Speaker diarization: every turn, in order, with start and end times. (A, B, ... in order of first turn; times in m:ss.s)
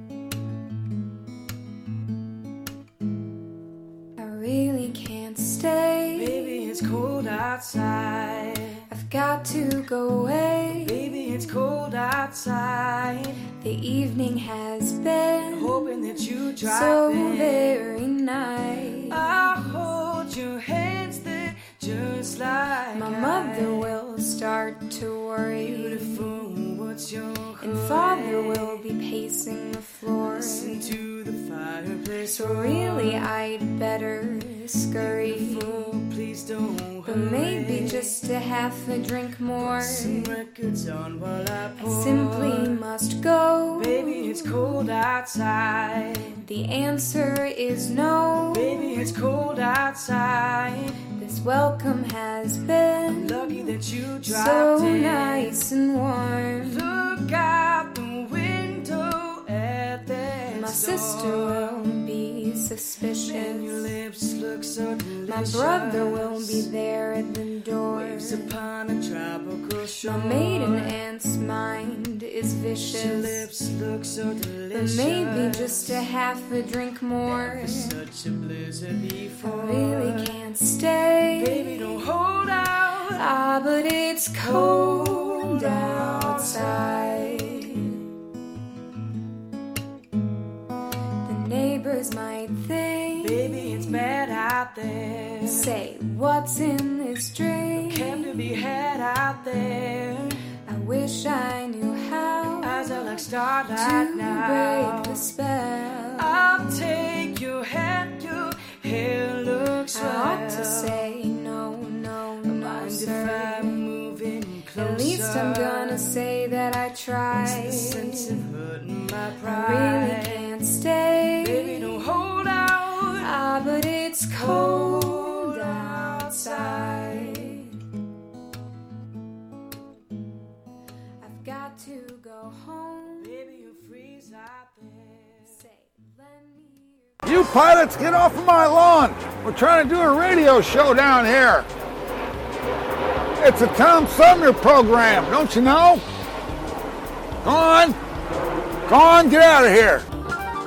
0:04.2-0:07.0 A
0:06.1-0:08.8 B
0:08.9-0:11.1 A
0:10.8-0:13.4 B
0:13.6-0:19.6 A
0:15.5-0:17.8 B
0:19.1-0:23.9 B
0:22.9-0:26.4 A
0:25.6-0:28.8 B
0:27.6-0:31.0 A
0:30.3-0:33.3 B
0:32.2-0:36.0 A
0:35.0-0:38.2 B
0:37.0-0:40.4 A
0:39.6-0:42.8 B
0:41.8-0:44.7 A
0:43.8-0:46.4 B
0:46.4-0:49.1 A
0:48.5-0:51.0 B
0:51.2-0:56.9 A
0:53.1-0:55.6 B
0:56.6-1:01.7 B
1:00.5-1:04.0 A
1:03.2-1:06.7 B
1:05.2-1:08.5 A
1:07.8-1:10.9 B
1:10.0-1:13.5 A
1:12.9-1:16.0 B
1:14.7-1:18.0 A
1:17.2-1:20.4 B
1:19.4-1:21.9 A
1:21.3-1:23.3 B
1:23.0-1:28.0 A
1:24.3-1:27.8 B
1:31.2-1:34.1 A
1:33.2-1:35.7 B
1:35.4-1:38.6 A
1:37.8-1:40.4 B
1:40.7-1:46.6 A
1:42.6-1:45.3 B
1:46.2-1:51.0 B
1:49.9-1:53.9 A
1:52.4-1:56.1 B
1:54.8-1:58.4 A
1:57.4-2:00.5 B
1:59.4-2:02.0 A
2:01.4-2:03.3 B
2:03.1-2:07.7 A
2:04.4-2:07.5 B
2:11.2-2:13.4 A
2:13.2-2:15.6 B
2:15.4-2:17.3 A
2:17.3-2:21.6 C
2:23.4-2:26.0 C
2:27.4-2:28.0 C
2:28.9-2:30.0 C